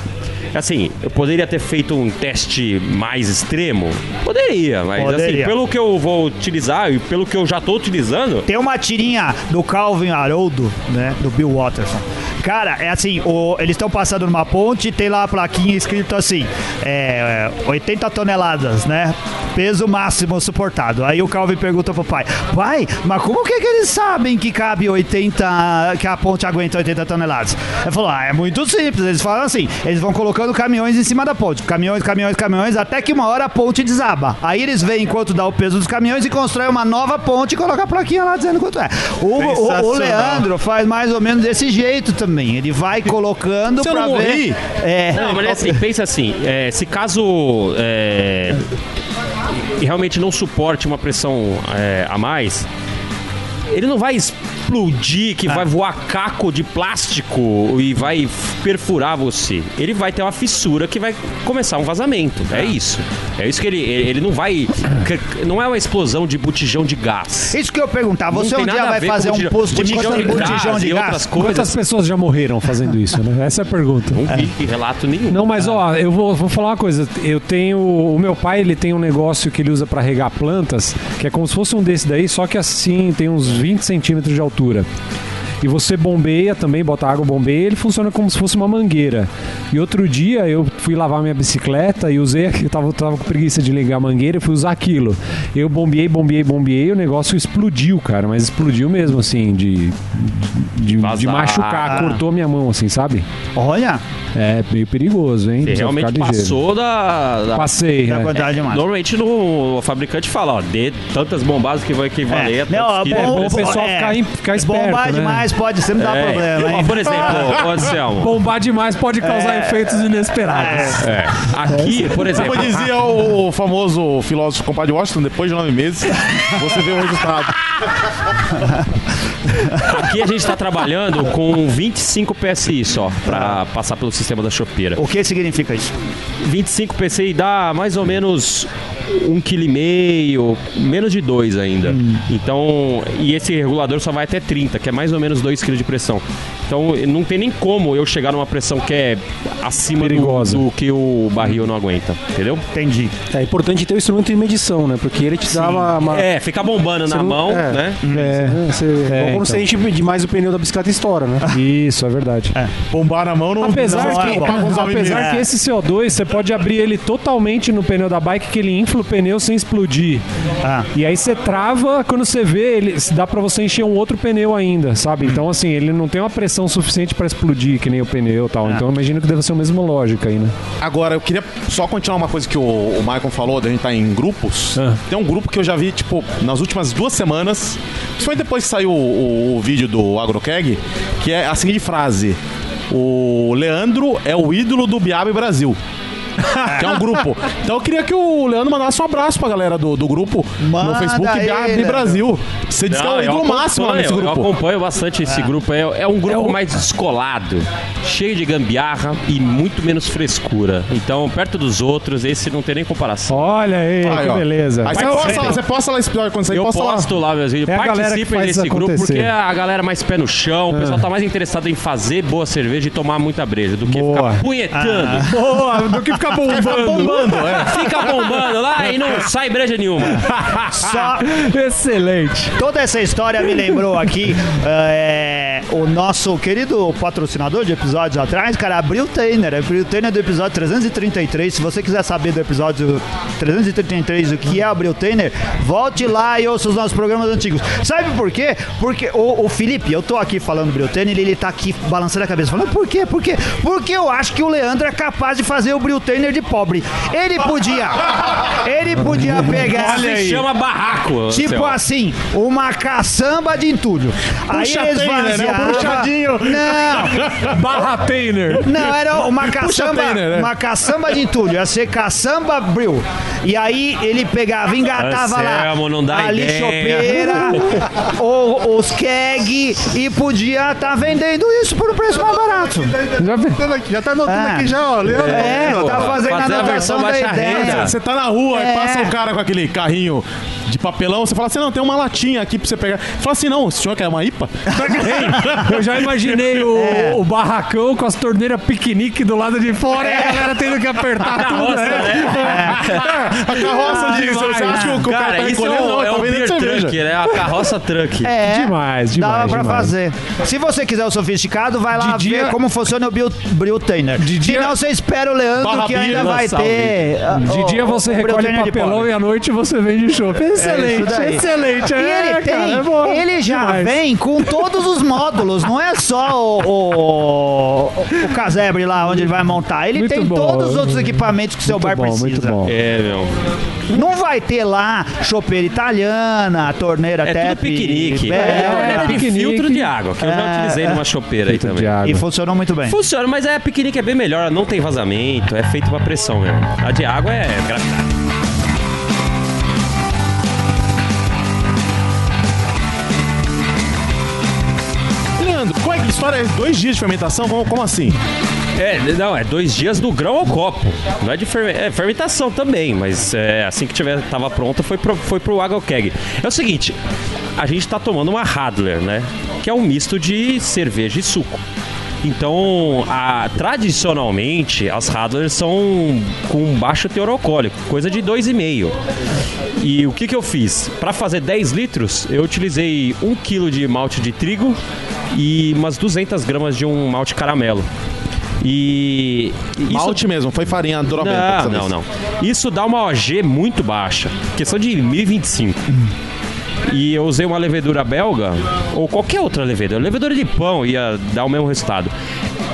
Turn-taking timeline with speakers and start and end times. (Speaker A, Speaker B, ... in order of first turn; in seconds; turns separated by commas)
Speaker A: 0.5-8.5, Speaker B: 5.0-5.5, Speaker B: 8.5-45.7, Speaker C: 39.4-40.5, Speaker D: 43.8-44.6, Speaker A: 45.1-48.6, Speaker A: 49.8-52.7, Speaker A: 53.7-67.5, Speaker B: 67.5-71.3, Speaker A: 68.3-71.8, Speaker E: 69.9-70.6, Speaker E: 71.3-74.2, Speaker A: 74.1-75.7, Speaker E: 75.3-84.9, Speaker E: 85.6-103.2, Speaker A: 101.0-102.1, Speaker B: 101.8-102.2, Speaker B: 103.5-104.0, Speaker E: 104.3-106.5, Speaker A: 105.6-107.8, Speaker E: 107.5-108.3, Speaker B: 108.0-108.8, Speaker A: 108.3-113.8, Speaker B: 112.3-117.5, Speaker E: 113.1-115.5, Speaker A: 116.0-118.4, Speaker E: 118.2-121.0, Speaker B: 119.2-121.0, Speaker A: 121.0-122.9, Speaker D: 122.3-127.6, Speaker A: 129.8-135.0, Speaker B: 133.3-133.6, Speaker B: 135.0-135.9, Speaker A: 136.4-152.6, Speaker B: 141.9-142.2, Speaker E: 150.0-150.6, Speaker B: 152.7-153.1, Speaker F: 153.3-156.2, Speaker A: 156.1-158.0, Speaker F: 157.1-161.4, Speaker B: 158.0-158.4, Speaker E: 159.1-159.6, Speaker E: 161.5-162.5, Speaker D: 162.9-165.3, Speaker E: 163.6-170.2, Speaker B: 163.8-165.5, Speaker B: 170.6-170.9, Speaker E: 170.9-180.5, Speaker D: 180.8-192.4, Speaker D: 192.9-195.8, Speaker D: 196.5-204.5, Speaker B: 196.7-197.0, Speaker B: 200.6-202.2, Speaker A: 202.9-213.4, Speaker E: 206.3-206.6, Speaker E: 213.3-215.6, Speaker D: 214.0-217.1, Speaker A: 214.9-215.4, Speaker A: 216.5-225.3, Speaker E: 217.7-219.3, Speaker E: 220.7-221.0, Speaker E: 223.8-224.4, Speaker B: 224.7-225.3, Speaker E: 225.3-227.8, Speaker D: 226.4-228.4, Speaker A: 227.5-230.6, Speaker B: 230.7-231.3, Speaker E: 230.8-232.5, Speaker B: 232.6-260.2, Speaker E: 259.2-260.4, Speaker A: 259.5-261.8, Speaker B: 261.3-267.2, Speaker D: 264.5-267.5, Speaker E: 267.4-268.7, Speaker B: 268.6-282.9, Speaker D: 269.4-270.5, Speaker A: 274.9-277.6, Speaker E: 277.3-277.6, Speaker E: 283.2-283.6, Speaker C: 283.6-285.7, Speaker B: 284.2-287.9, Speaker A: 285.1-287.9, Speaker D: 287.5-296.1, Speaker B: 288.5-289.1, Speaker B: 294.8-295.6, Speaker E: 294.9-305.0, Speaker B: 296.7-297.2, Speaker B: 299.9-300.6, Speaker A: 301.3-303.1, Speaker B: 302.3-302.8, Speaker D: 302.9-306.9, Speaker B: 304.7-305.0, Speaker A: 305.0-308.3, Speaker B: 308.2-319.1, Speaker E: 308.4-309.9, Speaker E: 311.9-312.6, Speaker E: 314.2-314.7, Speaker D: 315.6-316.9, Speaker E: 317.4-323.9, Speaker B: 320.6-332.6, Speaker E: 329.9-332.7, Speaker A: 332.6-333.3, Speaker B: 333.9-339.2, Speaker A: 337.2-341.9, Speaker E: 338.3-339.9, Speaker B: 340.2-341.0, Speaker E: 341.5-342.2, Speaker B: 342.0-342.9, Speaker A: 342.9-348.1, Speaker D: 355.4-358.2, Speaker A: 358.7-367.0, Speaker A: 367.6-371.6, Speaker A: 372.2-378.9, Speaker A: 379.8-384.8, Speaker A: 385.3-387.9, Speaker A: 388.6-390.2, Speaker D: 389.9-391.9, Speaker A: 391.1-396.0, Speaker A: 396.9-402.1